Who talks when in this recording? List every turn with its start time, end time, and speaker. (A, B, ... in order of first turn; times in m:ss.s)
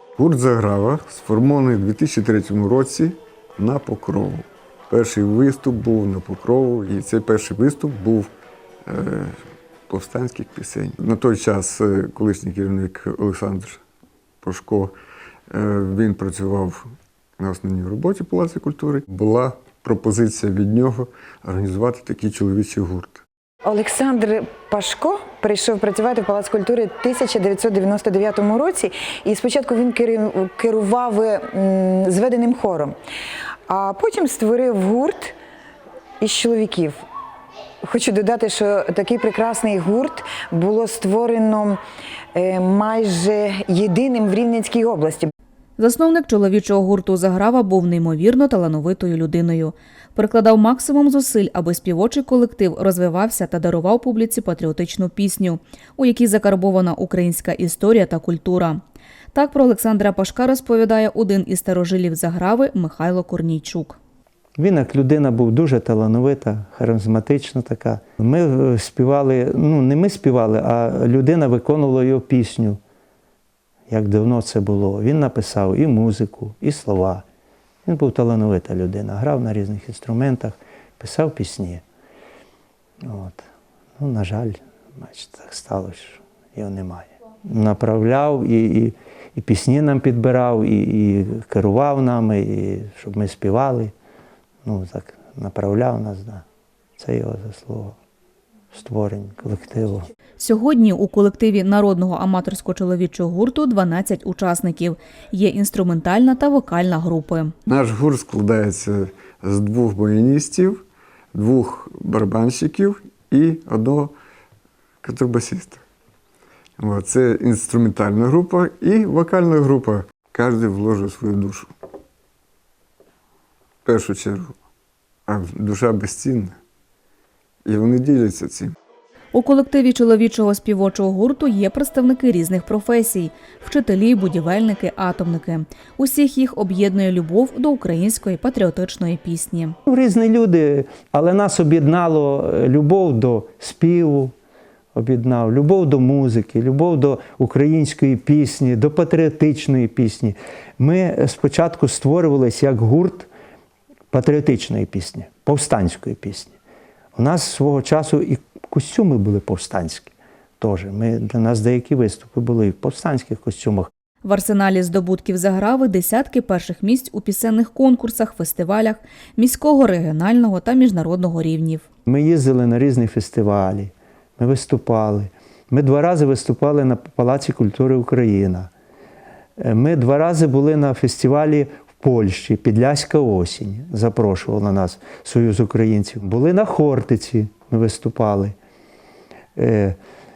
0:00.2-0:08.3 A
0:08.9-0:09.4 A
0:09.9-0:13.8 A
0:14.4-0:14.9 A
0:15.5-0:23.2 A
0:23.6-0:32.9 B
0:33.7-0:35.4 B
0:36.2-0:37.0 B
0:37.8-0:41.8 B
0:42.3-0:45.3 B
0:45.8-0:58.8 C
0:59.3-1:04.0 C
1:04.6-1:12.8 D
1:13.9-1:17.2 D
1:17.8-1:21.8 D
1:23.0-1:33.9 D
1:34.6-1:36.4 D
1:37.0-1:38.0 D
1:38.7-1:40.1 D
1:40.4-1:47.5 C
1:47.7-1:50.8 A
1:51.3-1:54.2 A
1:55.0-1:55.8 A
1:56.8-2:01.7 A
2:03.8-2:04.6 A
2:05.3-2:06.6 A
2:07.7-2:08.8 A
2:09.3-2:19.8 C
2:19.9-2:24.3 D
2:24.9-2:33.3 D
2:34.1-2:36.6 D
2:37.2-2:43.9 D
2:44.2-2:51.8 C
2:52.1-2:58.7 D
2:59.6-3:08.6 D
3:09.6-3:10.0 D